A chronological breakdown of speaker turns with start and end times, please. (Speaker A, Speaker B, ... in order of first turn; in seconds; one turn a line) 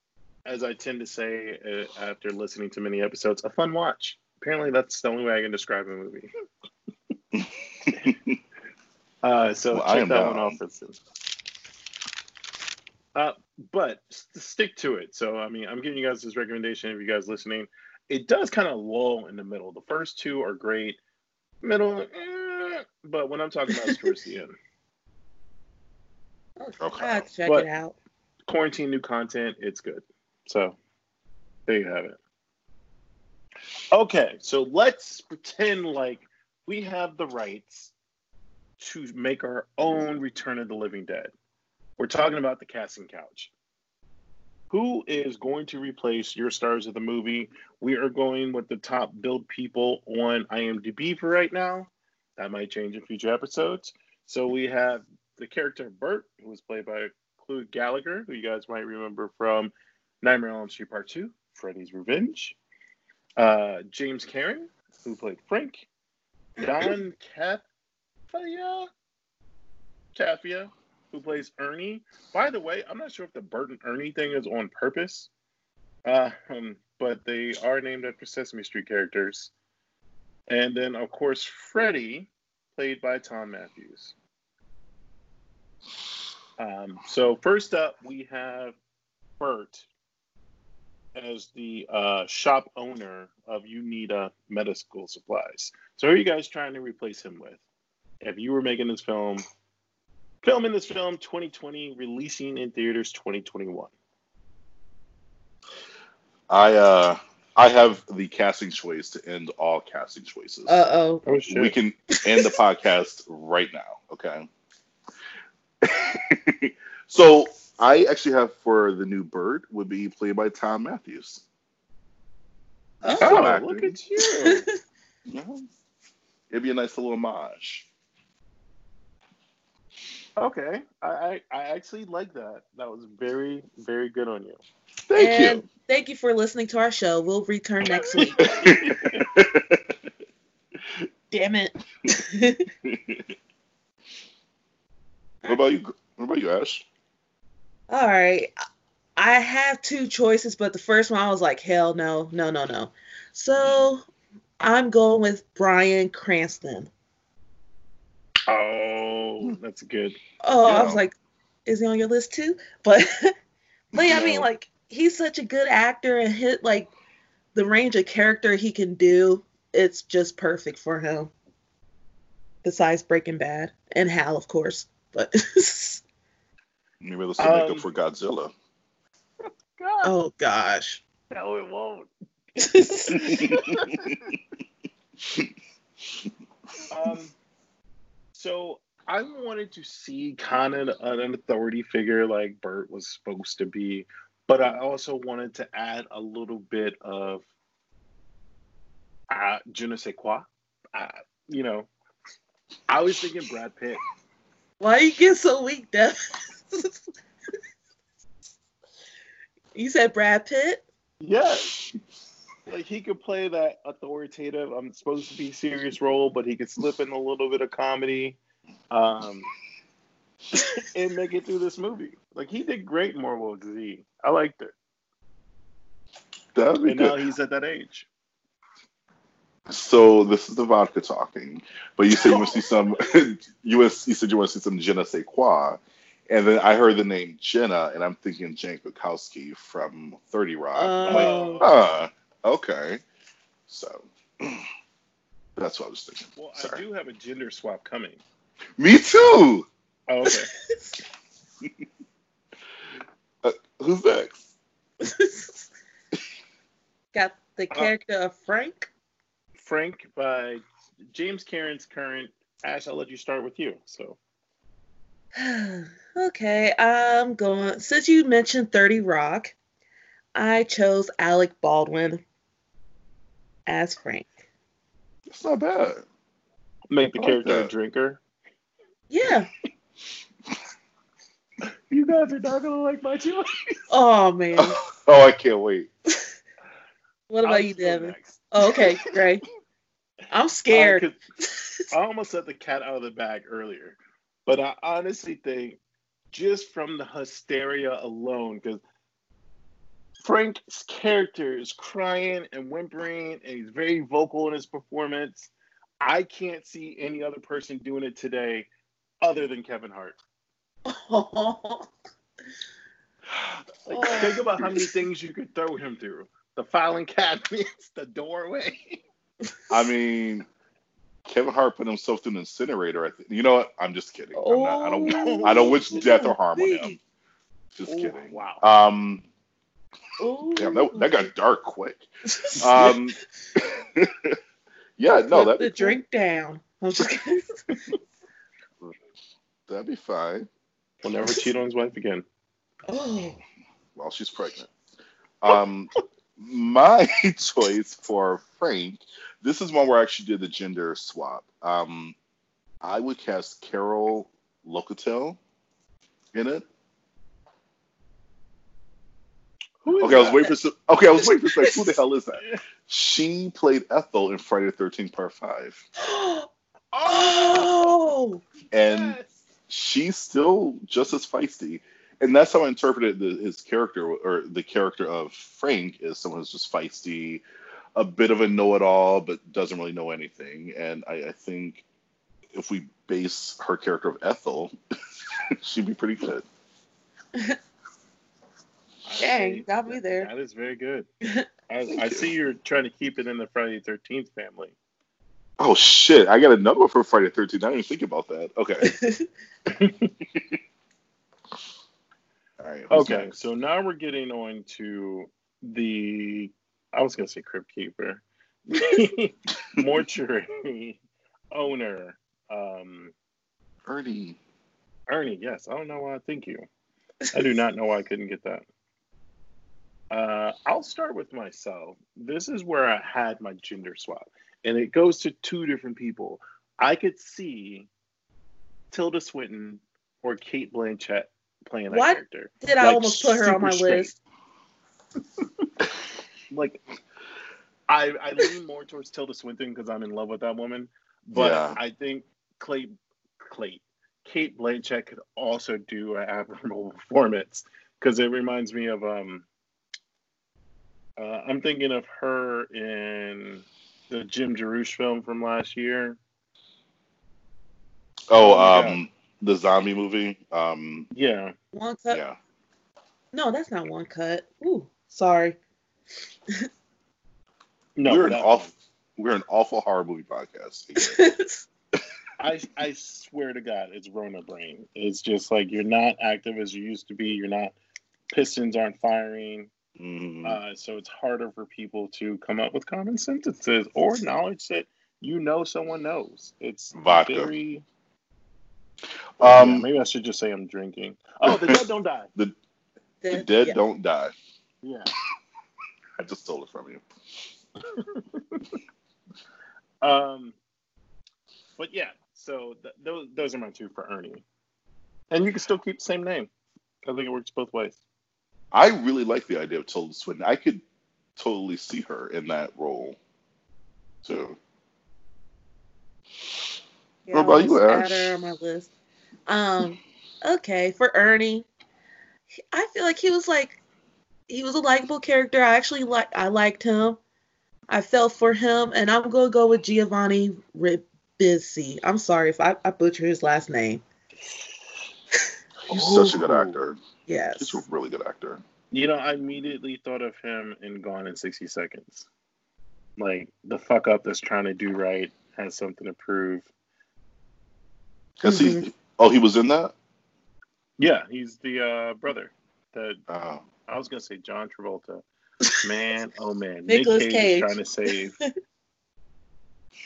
Speaker A: 0.5-6.3
Speaker B: 7.4-8.3
Speaker A: 9.2-11.0
Speaker B: 9.7-10.6
Speaker A: 13.2-21.0
Speaker A: 21.6-24.5
Speaker C: 26.6-27.9
Speaker B: 26.8-27.3
Speaker A: 28.5-30.8
Speaker A: 31.7-32.2
Speaker A: 33.9-37.9
Speaker A: 38.8-41.3
Speaker A: 42.0-43.5
Speaker A: 44.7-62.6
Speaker A: 63.4-65.9
Speaker A: 66.6-67.6
Speaker A: 68.3-68.9
Speaker A: 70.2-75.3
Speaker A: 76.1-79.5
Speaker A: 80.5-84.1
Speaker A: 86.6-88.8
Speaker A: 89.4-89.9
Speaker A: 91.2-97.6
Speaker A: 98.2-99.5
Speaker A: 100.4-103.9
Speaker B: 106.5-110.9
Speaker C: 110.7-111.2
Speaker A: 111.3-111.7
Speaker B: 111.5-114.5
Speaker B: 115.8-121.4
Speaker C: 123.0-123.5
Speaker A: 123.1-124.7
Speaker B: 123.1-124.0
Speaker C: 124.4-124.7
Speaker B: 125.3-125.7
Speaker B: 126.5-127.9
Speaker A: 130.4-134.6
Speaker B: 135.1-135.6
Speaker C: 135.2-138.7
Speaker A: 138.1-139.3
Speaker B: 138.6-139.9
Speaker C: 141.3-142.7
Speaker B: 142.8-143.2
Speaker B: 145.4-146.8
Speaker C: 147.9-148.5
Speaker C: 149.2-154.0
Speaker C: 154.6-156.9
Speaker A: 158.5-160.2
Speaker C: 160.4-161.1
Speaker B: 160.7-161.0
Speaker C: 161.7-163.3
Speaker C: 163.9-166.9
Speaker B: 164.0-164.4
Speaker C: 167.5-171.3
Speaker C: 172.6-176.0
Speaker B: 177.0-178.5
Speaker A: 177.4-177.9
Speaker A: 179.4-180.1
Speaker C: 180.0-181.0
Speaker A: 181.3-182.1
Speaker C: 182.6-183.6
Speaker A: 183.2-184.3
Speaker B: 183.5-184.1
Speaker A: 186.9-187.3
Speaker A: 188.3-197.4
Speaker A: 199.3-201.9
Speaker A: 202.9-204.0
Speaker C: 204.8-207.0
Speaker C: 209.8-210.8
Speaker A: 211.2-211.8
Speaker A: 212.7-218.4
Speaker A: 218.9-219.5
Speaker A: 220.8-224.7
Speaker B: 226.6-227.2
Speaker A: 226.8-228.1
Speaker B: 229.7-243.0
Speaker A: 232.2-232.5
Speaker C: 240.7-241.7
Speaker A: 241.1-241.7
Speaker B: 243.7-244.7
Speaker B: 245.6-246.8
Speaker A: 246.4-248.2
Speaker B: 248.8-249.7
Speaker A: 250.1-250.5
Speaker B: 253.4-254.4
Speaker C: 255.0-255.7
Speaker C: 257.1-258.9
Speaker A: 259.6-264.2
Speaker C: 265.4-269.5
Speaker C: 270.3-272.2
Speaker C: 273.7-274.3
Speaker B: 275.3-276.0
Speaker A: 276.9-278.2
Speaker B: 277.1-277.7
Speaker C: 279.1-279.5
Speaker A: 281.9-283.8
Speaker C: 283.9-284.8
Speaker B: 284.6-285.9
Speaker C: 287.3-289.4
Speaker A: 287.4-289.1
Speaker C: 290.3-291.9
Speaker A: 290.7-291.2
Speaker A: 291.9-295.8
Speaker A: 296.3-298.8
Speaker A: 300.2-308.7
Speaker A: 309.2-310.2
Speaker C: 310.9-311.9
Speaker B: 313.3-314.4
Speaker C: 313.9-314.9
Speaker A: 314.0-319.0
Speaker B: 319.7-320.5
Speaker B: 321.3-327.0
Speaker C: 324.4-327.0
Speaker A: 325.1-325.9
Speaker B: 327.8-329.3
Speaker A: 327.9-328.6
Speaker C: 330.2-331.3
Speaker B: 330.6-332.1
Speaker C: 332.3-333.0
Speaker B: 332.6-334.4
Speaker B: 335.0-336.0
Speaker C: 335.3-337.6
Speaker B: 339.7-340.5
Speaker A: 341.0-342.2
Speaker C: 342.9-343.4
Speaker B: 344.0-344.7
Speaker B: 345.4-352.1
Speaker B: 352.8-355.4
Speaker B: 356.3-356.6
Speaker A: 359.8-360.6
Speaker B: 360.0-365.9
Speaker C: 361.4-361.9
Speaker C: 366.0-366.5
Speaker A: 366.9-368.0
Speaker C: 367.1-368.4
Speaker B: 368.7-369.2
Speaker A: 368.8-369.4
Speaker B: 369.7-377.4
Speaker B: 378.0-381.8
Speaker B: 382.5-384.8
Speaker B: 385.6-386.4
Speaker A: 389.1-391.1
Speaker C: 389.2-390.3
Speaker A: 391.7-394.8
Speaker B: 392.0-392.3
Speaker B: 395.6-398.9
Speaker C: 398.8-399.3
Speaker A: 399.7-400.1
Speaker B: 402.6-403.3
Speaker A: 402.9-411.0
Speaker A: 411.5-413.1
Speaker B: 413.9-414.4
Speaker A: 415.1-416.6
Speaker A: 417.3-418.6
Speaker A: 420.1-427.9
Speaker A: 428.9-434.1
Speaker C: 431.9-434.1
Speaker A: 436.5-436.8
Speaker A: 437.9-449.4
Speaker B: 441.3-441.8
Speaker A: 451.2-456.2
Speaker B: 458.3-461.1
Speaker A: 458.4-459.0
Speaker A: 461.1-461.5
Speaker C: 461.7-462.2
Speaker B: 462.1-462.4
Speaker C: 463.3-465.6
Speaker A: 468.0-468.7
Speaker B: 468.1-471.2
Speaker C: 471.0-471.6
Speaker A: 472.4-477.8
Speaker A: 478.3-479.7
Speaker B: 480.0-480.6
Speaker A: 480.4-487.8
Speaker B: 486.9-487.5
Speaker B: 489.4-489.9
Speaker A: 489.4-492.3
Speaker B: 491.4-491.8
Speaker C: 493.2-493.8
Speaker B: 493.3-494.3
Speaker A: 494.8-495.1
Speaker B: 496.2-497.0
Speaker A: 497.9-498.8
Speaker A: 500.0-500.6
Speaker A: 501.8-504.4
Speaker A: 505.3-506.5
Speaker A: 507.1-508.0
Speaker B: 508.7-510.8
Speaker B: 511.4-513.2
Speaker B: 514.2-514.6
Speaker C: 517.3-518.9
Speaker B: 517.3-518.4
Speaker C: 519.5-521.7
Speaker C: 522.7-523.8
Speaker C: 524.5-527.2
Speaker C: 527.9-534.0
Speaker A: 535.9-536.7
Speaker B: 535.9-537.0
Speaker C: 537.3-537.8
Speaker B: 537.6-538.6
Speaker A: 538.9-542.3
Speaker A: 543.2-546.7
Speaker B: 548.4-549.9
Speaker C: 548.5-548.8
Speaker A: 551.0-553.2
Speaker B: 553.3-553.7
Speaker A: 553.9-555.2
Speaker A: 555.7-558.4
Speaker C: 556.9-557.8